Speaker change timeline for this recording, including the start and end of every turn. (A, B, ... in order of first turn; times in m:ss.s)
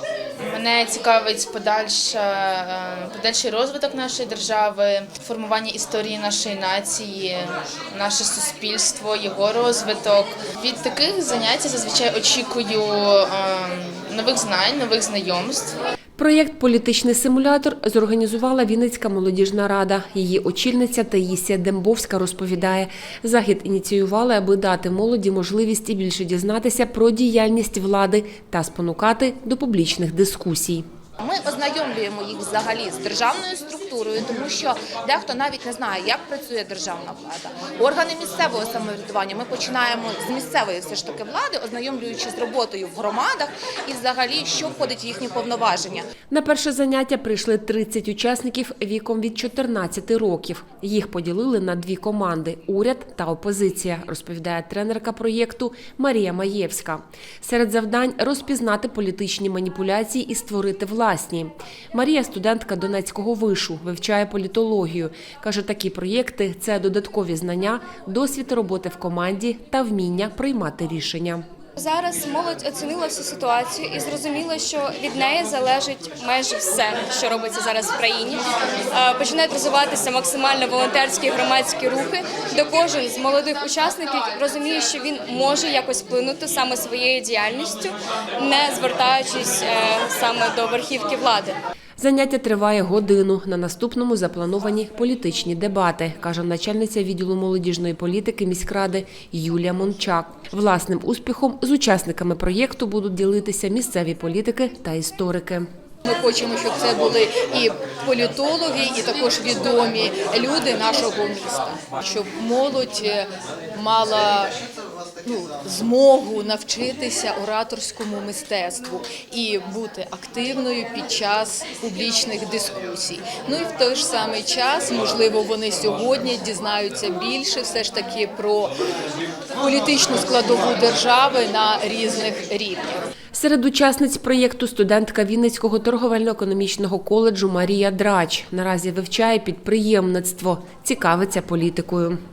0:00.4-0:15.7 A
0:16.2-0:30.8 B
0:31.2-0:46.1 C
0:46.3-1:11.4 B
1:11.8-1:31.6 D
1:32.0-1:45.7 B
1:46.0-1:54.5 E
1:55.2-2:08.7 E
2:09.6-2:13.0 E
2:13.3-2:22.2 B